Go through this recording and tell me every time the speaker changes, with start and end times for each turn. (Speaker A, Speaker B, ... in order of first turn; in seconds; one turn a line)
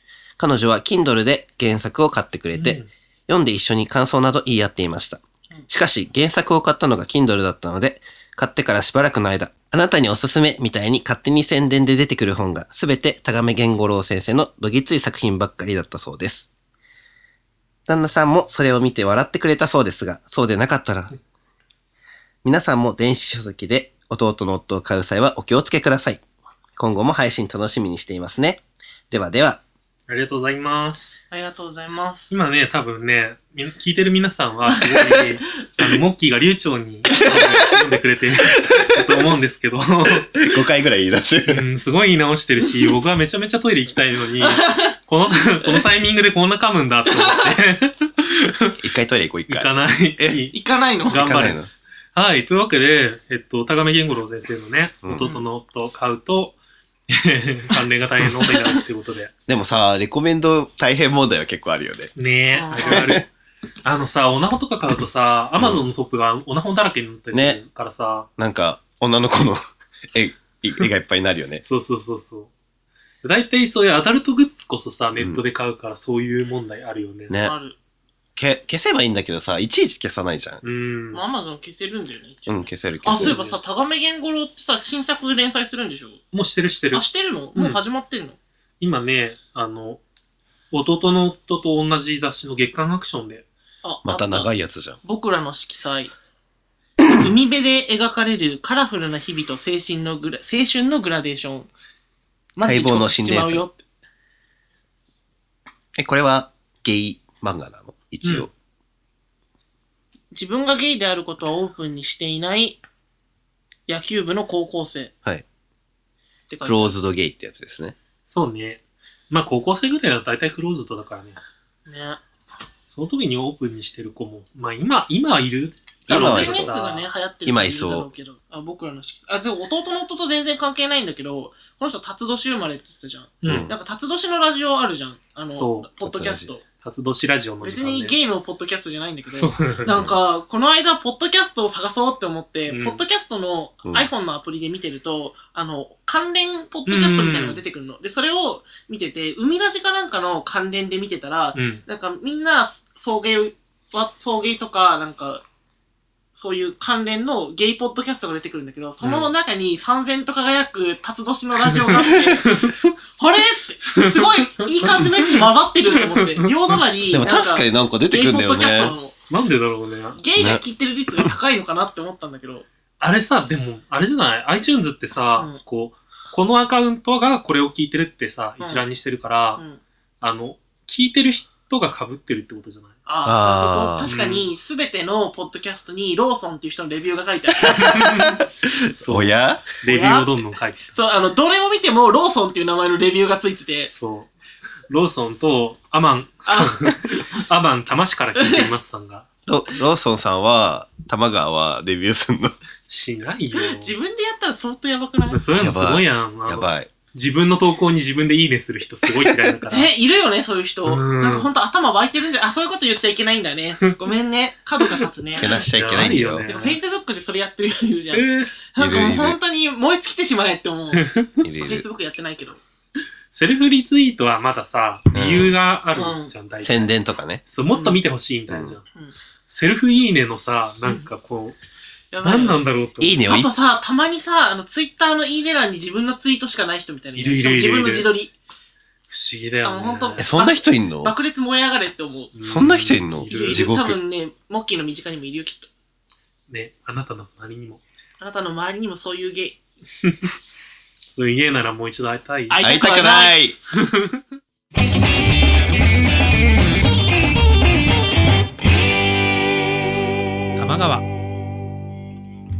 Speaker A: 0.4-16.5
Speaker B: 2.5-2.9
Speaker A: 17.9-21.1
Speaker A: 22.4-26.2
Speaker A: 26.8-29.6
Speaker B: 30.1-31.2
Speaker C: 31.3-32.3
Speaker B: 32.3-40.4
Speaker C: 34.7-35.2
Speaker C: 37.1-37.8
Speaker A: 40.4-41.6
Speaker B: 41.5-48.8
Speaker C: 44.4-44.9
Speaker A: 48.8-50.4
Speaker B: 49.5-50.5
Speaker C: 50.5-51.2
Speaker B: 51.1-51.6
Speaker A: 51.1-51.7
Speaker B: 52.1-56.6
Speaker C: 55.2-55.5
Speaker B: 57.1-59.3
Speaker C: 58.5-58.8
Speaker A: 59.5-62.1
Speaker B: 62.1-63.2
Speaker C: 62.5-63.1
Speaker A: 62.8-63.2
Speaker B: 63.8-68.3
Speaker A: 65.6-65.8
Speaker A: 67.3-67.6
Speaker A: 68.4-71.6
Speaker B: 71.6-72.5
Speaker B: 73.2-77.3
Speaker A: 75.2-75.4
Speaker A: 77.3-77.5
Speaker C: 77.4-77.8
Speaker A: 78.3-80.6
Speaker B: 80.6-81.2
Speaker C: 81.1-86.2
Speaker A: 82.5-83.4
Speaker B: 83.2-83.6
Speaker B: 86.3-87.8
Speaker C: 86.9-88.4
Speaker B: 88.8-90.0
Speaker B: 90.7-93.4
Speaker C: 93.8-94.5
Speaker A: 94.0-95.0
Speaker C: 95.0-96.1
Speaker C: 97.1-101.7
Speaker C: 102.5-103.8
Speaker A: 102.6-103.6
Speaker A: 106.0-108.5
Speaker B: 108.2-108.5
Speaker C: 110.3-112.8
Speaker C: 113.9-115.1
Speaker C: 116.5-116.9
Speaker A: 116.6-117.9
Speaker B: 118.3-121.4
Speaker C: 121.9-122.2
Speaker B: 122.9-127.1
Speaker A: 126.1-126.7
Speaker C: 126.1-136.6
Speaker A: 127.5-128.1
Speaker B: 133.4-133.7
Speaker A: 133.4-133.7
Speaker B: 135.5-135.9
Speaker A: 136.0-136.5
Speaker B: 136.8-138.1
Speaker C: 137.6-155.4
Speaker B: 139.3-139.9
Speaker B: 142.7-143.0
Speaker B: 146.9-147.6
Speaker B: 151.5-151.8
Speaker C: 156.3-162.7
Speaker B: 159.0-159.3
Speaker B: 161.6-162.9
Speaker C: 163.2-169.1
Speaker B: 163.9-166.8
Speaker A: 167.1-168.9
Speaker B: 169.3-170.2
Speaker C: 170.2-172.7
Speaker A: 170.4-170.6
Speaker B: 173.0-179.6
Speaker C: 178.6-178.8
Speaker B: 180.2-182.9
Speaker C: 183.1-188.3
Speaker A: 183.2-184.1
Speaker B: 184.0-184.5
Speaker A: 187.8-189.6
Speaker B: 187.9-188.2
Speaker B: 189.0-190.9
Speaker C: 189.8-190.4
Speaker C: 190.9-193.9
Speaker B: 193.9-194.3
Speaker B: 194.9-199.2
Speaker C: 196.4-197.5
Speaker C: 198.3-198.7
Speaker A: 199.5-202.5
Speaker B: 202.9-203.9
Speaker C: 203.7-205.4
Speaker B: 205.3-209.9
Speaker A: 205.5-206.9
Speaker C: 209.7-215.5
Speaker B: 210.8-211.5
Speaker B: 214.9-216.8
Speaker A: 215.4-216.5
Speaker C: 216.4-221.1
Speaker B: 218.1-218.5
Speaker A: 218.8-219.4
Speaker B: 220.9-221.4
Speaker A: 221.4-221.8
Speaker C: 221.6-222.6
Speaker B: 223.3-226.9
Speaker A: 225.1-225.6
Speaker C: 225.9-226.3
Speaker A: 226.6-227.4
Speaker B: 227.5-228.9
Speaker C: 227.7-228.0
Speaker A: 228.5-228.8
Speaker B: 229.5-231.6
Speaker C: 232.1-232.6
Speaker B: 232.2-233.3
Speaker A: 233.0-233.5
Speaker C: 233.2-238.3
Speaker B: 237.2-238.1
Speaker B: 239.1-240.3
Speaker C: 239.6-242.3
Speaker A: 240.2-241.1
Speaker B: 242.3-243.7
Speaker A: 242.5-244.0
Speaker C: 243.2-245.7
Speaker B: 246.5-247.8
Speaker C: 248.2-249.6
Speaker B: 250.0-250.3
Speaker B: 251.1-252.6
Speaker C: 252.5-253.4
Speaker A: 252.6-253.6
Speaker B: 253.7-254.2
Speaker B: 260.6-261.1